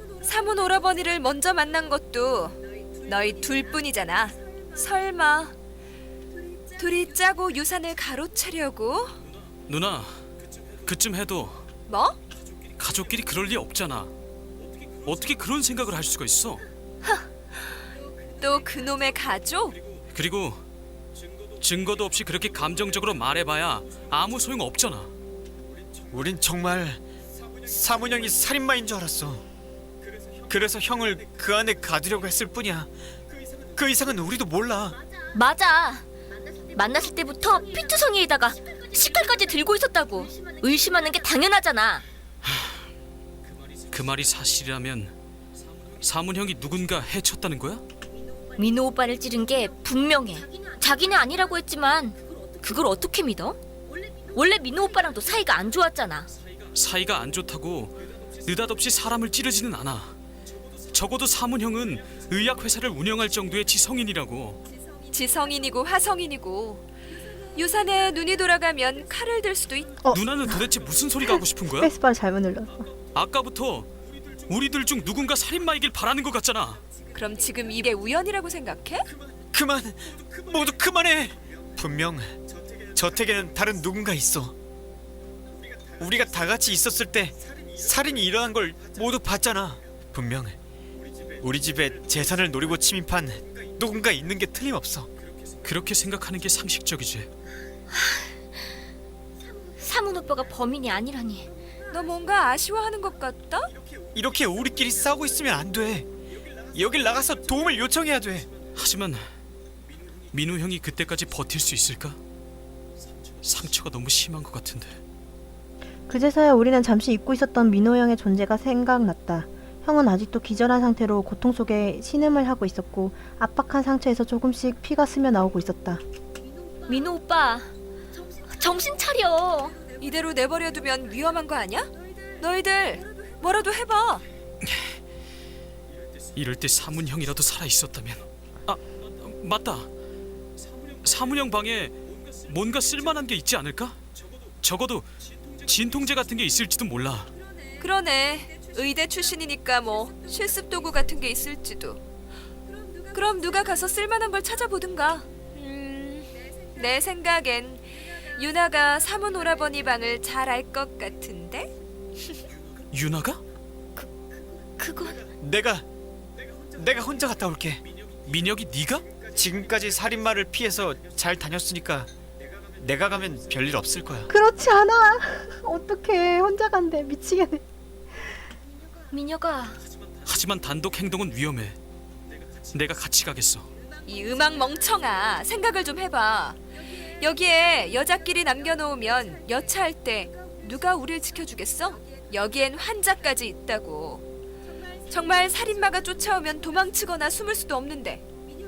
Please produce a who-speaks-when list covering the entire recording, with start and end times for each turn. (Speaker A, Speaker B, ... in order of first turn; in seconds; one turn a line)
Speaker A: 0.2-5.5
Speaker A: 6.8-9.2
Speaker B: 9.7-10.2
Speaker B: 10.8-11.7
Speaker A: 11.9-12.2
Speaker B: 12.8-14.1
Speaker B: 15.0-16.6
Speaker A: 18.3-19.8
Speaker B: 20.1-20.6
Speaker B: 21.6-25.1
Speaker C: 26.1-27.0
Speaker C: 27.6-29.4
Speaker C: 30.5-32.9
Speaker C: 33.8-35.0
Speaker D: 35.3-36.0
Speaker D: 36.7-42.0
Speaker B: 43.9-45.1
Speaker B: 46.0-47.8
Speaker D: 48.6-53.6
Speaker D: 54.3-56.3
Speaker B: 56.7-60.1
Speaker B: 60.9-64.6
Speaker A: 65.1-66.9
Speaker A: 67.5-70.0
Speaker E: 70.0-72.9
Speaker B: 70.1-71.9
Speaker B: 73.1-73.9
Speaker B: 74.5-76.8
Speaker A: 77.1-79.1
Speaker C: 79.5-82.3
Speaker C: 82.9-84.5
Speaker C: 86.0-90.6
Speaker C: 91.4-95.1
Speaker B: 95.6-97.3
Speaker D: 99.8-101.5
Speaker A: 101.9-103.7
Speaker C: 104.1-106.1
Speaker C: 106.7-108.5
Speaker B: 108.8-109.2
Speaker B: 110.3-112.2
Speaker B: 113.4-115.0
Speaker E: 116.1-126.0
Speaker D: 126.9-127.7
Speaker D: 128.5-129.8
Speaker A: 130.0-134.2
Speaker B: 136.3-139.9
Speaker B: 141.0-144.0
Speaker B: 144.6-145.1
Speaker B: 145.6-147.3
Speaker A: 147.8-152.0
Speaker A: 153.1-161.7
Speaker B: 162.9-163.4
Speaker D: 164.8-165.3
Speaker C: 165.4-165.8
Speaker C: 166.7-167.8
Speaker B: 168.2-169.1
Speaker C: 169.3-172.1
Speaker C: 172.8-174.3
Speaker E: 174.3-177.6
Speaker D: 179.1-179.8
Speaker B: 180.2-181.8
Speaker B: 182.7-183.7
Speaker A: 184.0-194.2
Speaker A: 195.1-198.2